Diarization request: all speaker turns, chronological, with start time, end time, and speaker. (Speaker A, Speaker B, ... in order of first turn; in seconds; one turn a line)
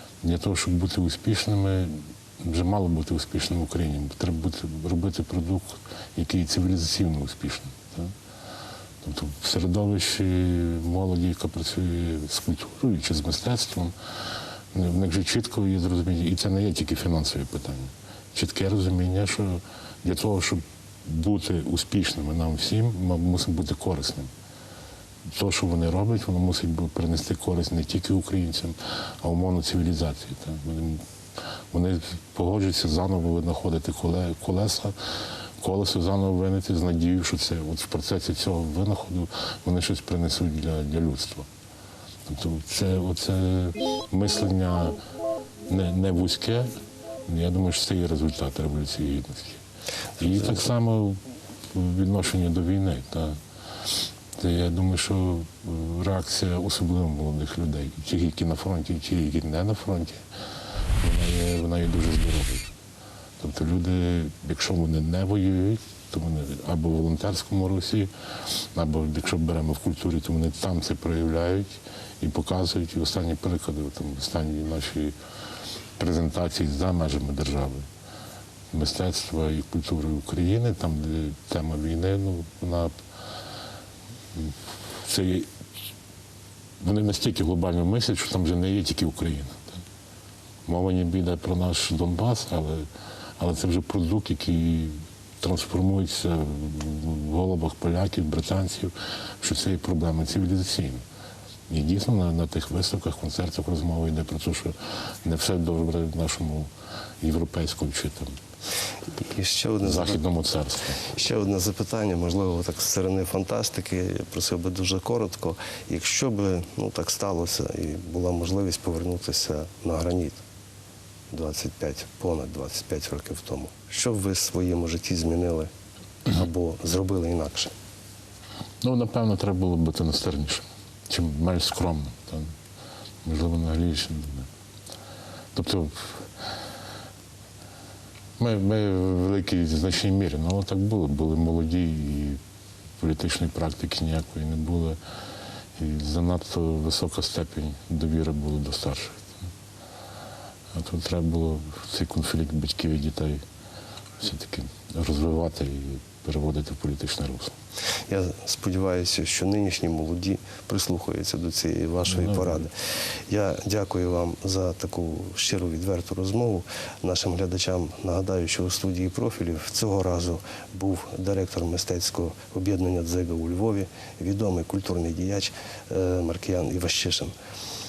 Speaker A: 0.2-8.1
Speaker A: 9.0-13.9
Speaker A: 14.7-24.3
Speaker A: 25.2-31.0
Speaker A: 31.7-35.0
Speaker A: 35.6-41.5
Speaker A: 42.2-45.0
Speaker A: 45.7-46.7
Speaker A: 47.2-49.6
Speaker A: 50.2-51.2
Speaker A: 51.7-53.4
Speaker A: 54.0-60.2
Speaker A: 61.0-62.7
Speaker A: 63.4-75.2
Speaker A: 76.0-77.8
Speaker A: 78.7-82.9
Speaker A: 84.3-85.5
Speaker A: 86.8-89.8
Speaker A: 90.7-101.0
Speaker A: 101.7-106.7
Speaker A: 107.2-108.4
Speaker B: 109.2-110.2
Speaker A: 109.8-111.0
Speaker B: 111.0-120.4
Speaker B: 121.3-125.7
Speaker B: 126.3-127.7
Speaker A: 128.8-132.5
Speaker A: 133.2-134.5
Speaker A: 135.5-136.2
Speaker A: 138.4-142.4
Speaker A: 143.0-145.0
Speaker A: 145.8-149.3
Speaker A: 150.7-153.4
Speaker A: 154.2-157.5
Speaker B: 158.1-162.7
Speaker A: 162.1-162.6
Speaker B: 163.3-177.3